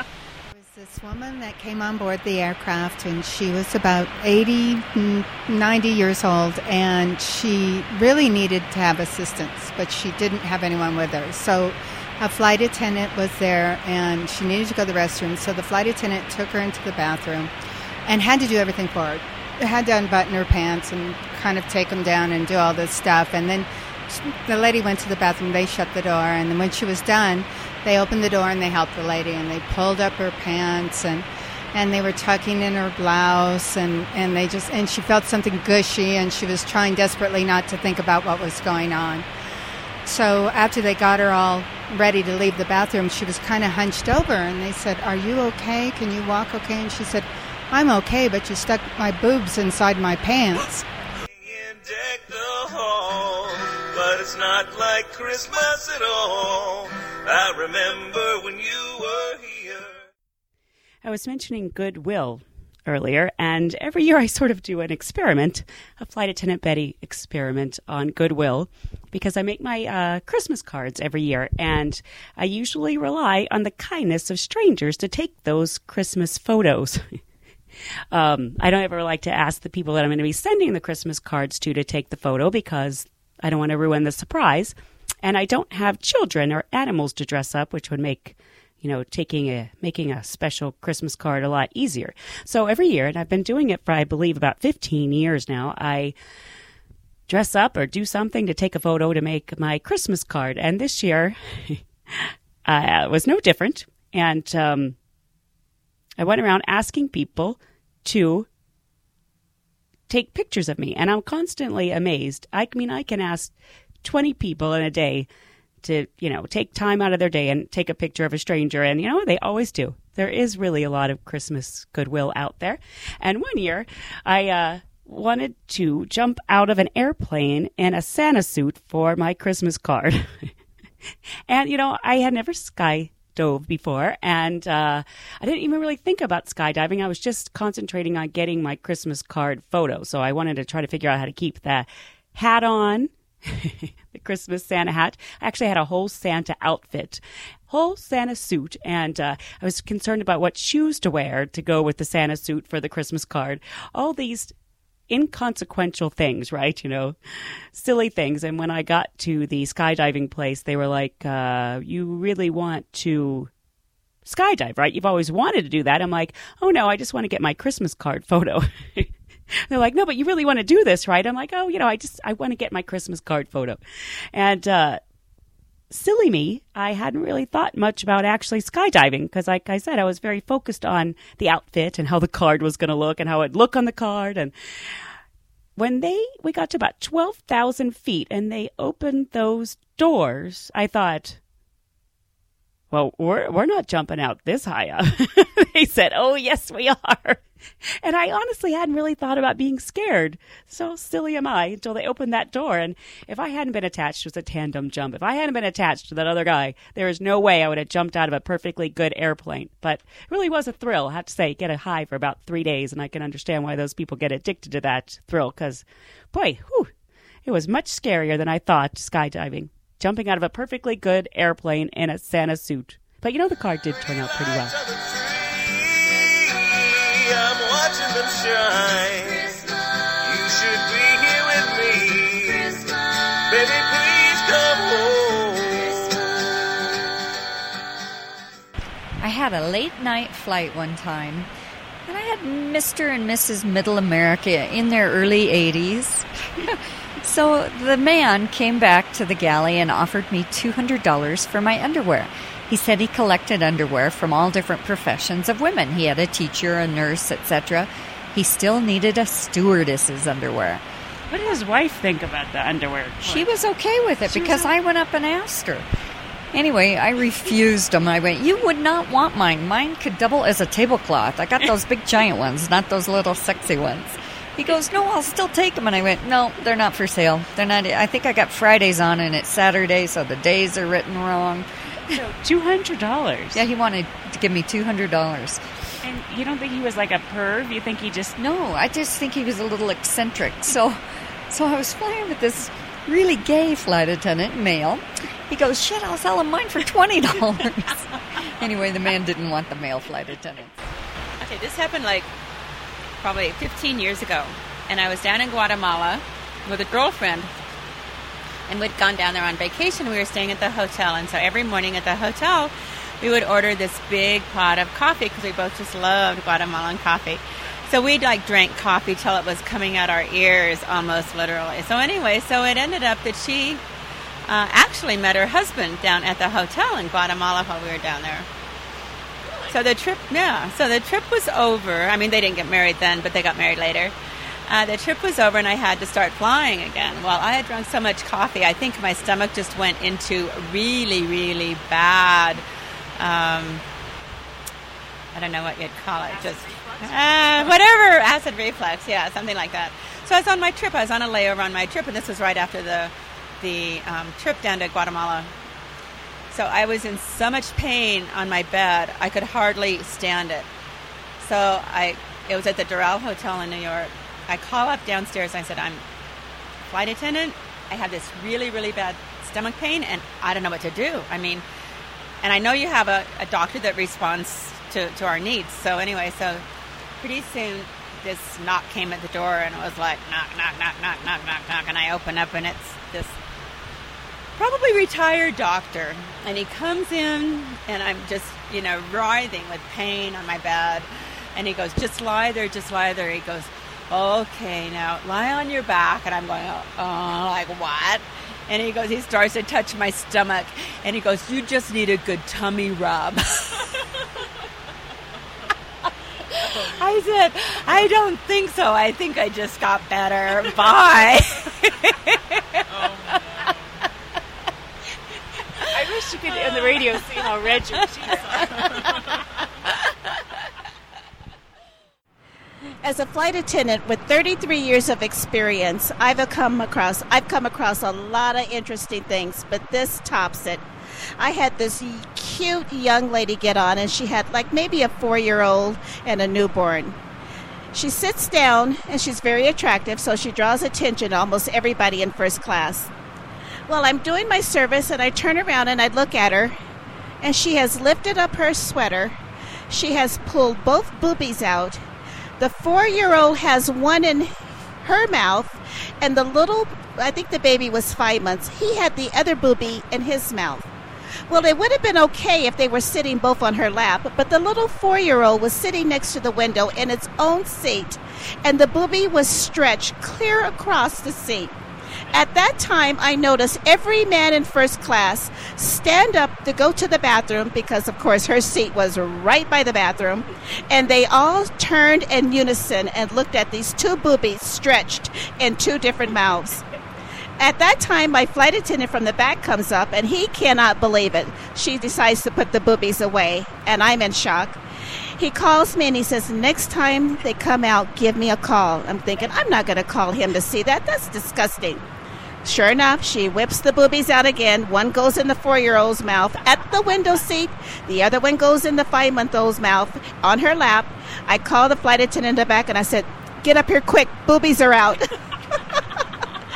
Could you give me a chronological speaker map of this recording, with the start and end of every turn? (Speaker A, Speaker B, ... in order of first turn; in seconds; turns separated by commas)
Speaker A: 0.5-17.5, Speaker A: 18.1-39.3, Speaker A: 40.1-50.8, Speaker B: 51.4-60.0, Speaker C: 61.0-77.2, Speaker C: 78.1-96.2, Speaker C: 97.3-105.0, Speaker C: 106.2-108.5, Speaker C: 110.1-115.3, Speaker C: 115.8-130.5, Speaker C: 131.5-154.5, Speaker C: 155.1-157.2, Speaker C: 157.7-163.5, Speaker C: 164.2-169.1, Speaker C: 169.7-173.8, Speaker C: 174.3-175.0, Speaker C: 175.9-184.5, Speaker C: 185.8-191.4, Speaker C: 192.9-197.4, Speaker C: 198.0-216.9, Speaker C: 217.4-224.8, Speaker B: 224.3-229.7, Speaker B: 230.2-232.9, Speaker B: 233.5-236.5, Speaker D: 239.2-241.5, Speaker D: 242.1-260.8, Speaker C: 261.3-263.5, Speaker D: 263.2-265.9, Speaker C: 264.3-264.7, Speaker D: 266.5-282.2, Speaker C: 282.1-283.6, Speaker D: 283.5-285.6, Speaker C: 286.0-288.4, Speaker D: 288.4-300.8, Speaker E: 301.4-302.3, Speaker E: 303.2-307.5, Speaker E: 308.7-323.8, Speaker E: 324.4-328.5, Speaker E: 329.7-334.1, Speaker E: 334.7-342.6, Speaker E: 343.2-343.8, Speaker E: 345.3-355.5, Speaker C: 346.3-347.7, Speaker E: 356.5-360.7, Speaker E: 361.4-366.0, Speaker E: 366.8-371.6, Speaker E: 372.4-376.6, Speaker E: 377.2-383.3, Speaker E: 384.6-404.0, Speaker E: 406.5-413.4, Speaker C: 415.9-419.0, Speaker E: 418.7-419.1, Speaker F: 423.0-430.9, Speaker F: 431.4-437.2, Speaker F: 437.9-443.1, Speaker F: 443.9-446.8, Speaker F: 447.4-449.3, Speaker F: 449.9-452.0, Speaker F: 452.6-460.9, Speaker F: 461.5-471.8, Speaker F: 472.3-486.8, Speaker F: 487.6-494.8, Speaker F: 495.4-502.1, Speaker F: 502.6-515.2, Speaker F: 515.8-516.0